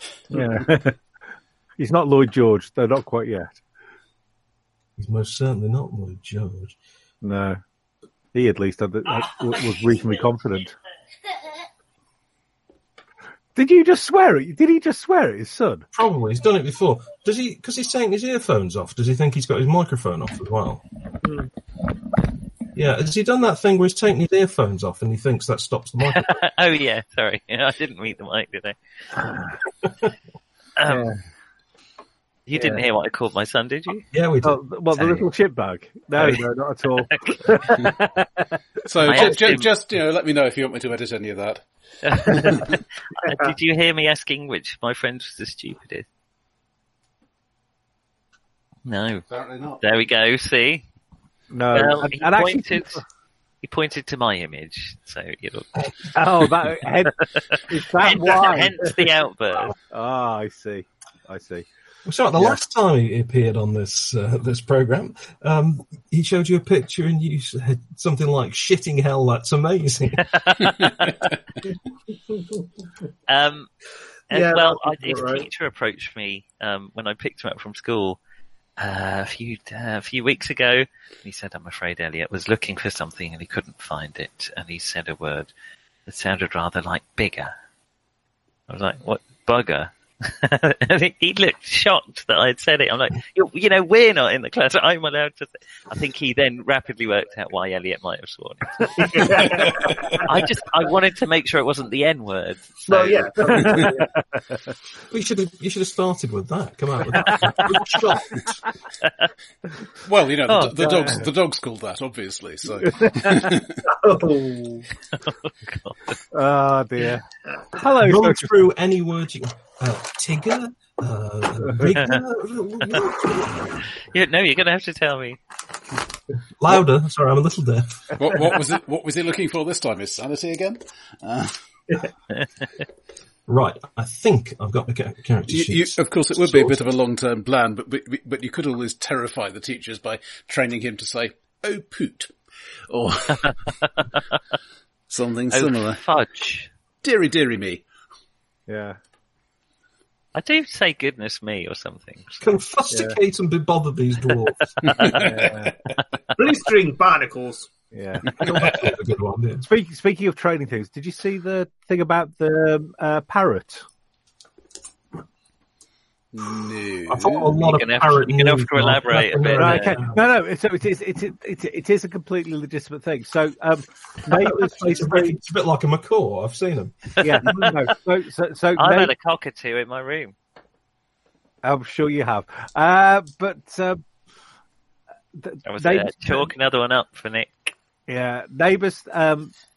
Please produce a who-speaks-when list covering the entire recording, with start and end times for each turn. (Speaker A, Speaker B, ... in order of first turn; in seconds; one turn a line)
Speaker A: 0.3-1.0
Speaker A: 1.8-3.6
Speaker B: 5.0-6.8
Speaker A: 7.2-7.6
Speaker A: 8.3-10.8
Speaker A: 13.6-15.9
Speaker B: 15.9-20.8
Speaker C: 21.2-21.5
Speaker B: 22.7-26.4
Speaker D: 26.1-28.8
Speaker D: 30.8-31.1
Speaker A: 30.9-31.2
Speaker D: 32.5-34.1
Speaker A: 32.5-32.9
Speaker B: 34.1-34.6
Speaker A: 34.4-38.5
Speaker D: 35.0-35.2
Speaker D: 37.3-37.6
Speaker E: 38.9-41.6
Speaker D: 39.0-39.7
Speaker D: 42.0-46.1
Speaker E: 42.3-42.7
Speaker C: 43.3-43.5
Speaker D: 48.9-49.2
Speaker E: 49.3-49.8
Speaker D: 49.8-50.8
Speaker A: 51.5-53.0
Speaker D: 51.7-53.0
Speaker D: 53.6-55.9
Speaker A: 56.1-59.0
Speaker D: 57.2-59.8
Speaker A: 59.9-61.7
Speaker B: 62.1-70.3
Speaker D: 70.2-70.9
Speaker E: 70.6-71.3
Speaker C: 72.3-72.7
Speaker D: 73.3-73.7
Speaker D: 74.3-78.2
Speaker C: 74.3-75.5
Speaker D: 78.8-85.5
Speaker D: 86.1-87.5
Speaker D: 88.7-103.9
Speaker C: 99.0-99.9
Speaker E: 99.7-100.2
Speaker C: 102.9-104.1
Speaker A: 103.5-104.2
Speaker B: 105.1-108.6
Speaker A: 107.2-107.7
Speaker E: 110.0-113.8
Speaker D: 110.5-110.8
Speaker A: 110.8-111.2
Speaker A: 112.8-113.5
Speaker C: 113.8-114.9
Speaker D: 115.1-116.2
Speaker A: 116.3-118.5
Speaker B: 118.0-123.8
Speaker D: 122.0-122.2
Speaker D: 124.1-125.4
Speaker B: 126.6-128.2
Speaker E: 128.2-131.5
Speaker D: 132.3-132.7
Speaker B: 133.5-136.8
Speaker E: 135.5-142.3
Speaker E: 142.9-143.7
Speaker D: 143.8-144.2
Speaker E: 145.1-146.0
Speaker D: 145.5-146.7
Speaker E: 147.0-147.8
Speaker A: 148.7-149.0
Speaker D: 150.3-152.4
Speaker B: 152.4-155.1
Speaker A: 152.9-153.2
Speaker E: 154.8-155.5
Speaker A: 155.1-155.8
Speaker C: 156.4-157.7
Speaker A: 157.9-158.3
Speaker B: 158.4-159.7
Speaker A: 159.6-163.8
Speaker E: 166.3-167.6
Speaker B: 167.1-170.2
Speaker D: 167.6-170.1
Speaker A: 169.6-175.3
Speaker B: 174.3-177.7
Speaker A: 177.2-179.1
Speaker D: 178.8-180.3
Speaker A: 181.6-184.0
Speaker A: 185.4-186.5
Speaker D: 185.7-187.7
Speaker A: 188.1-189.5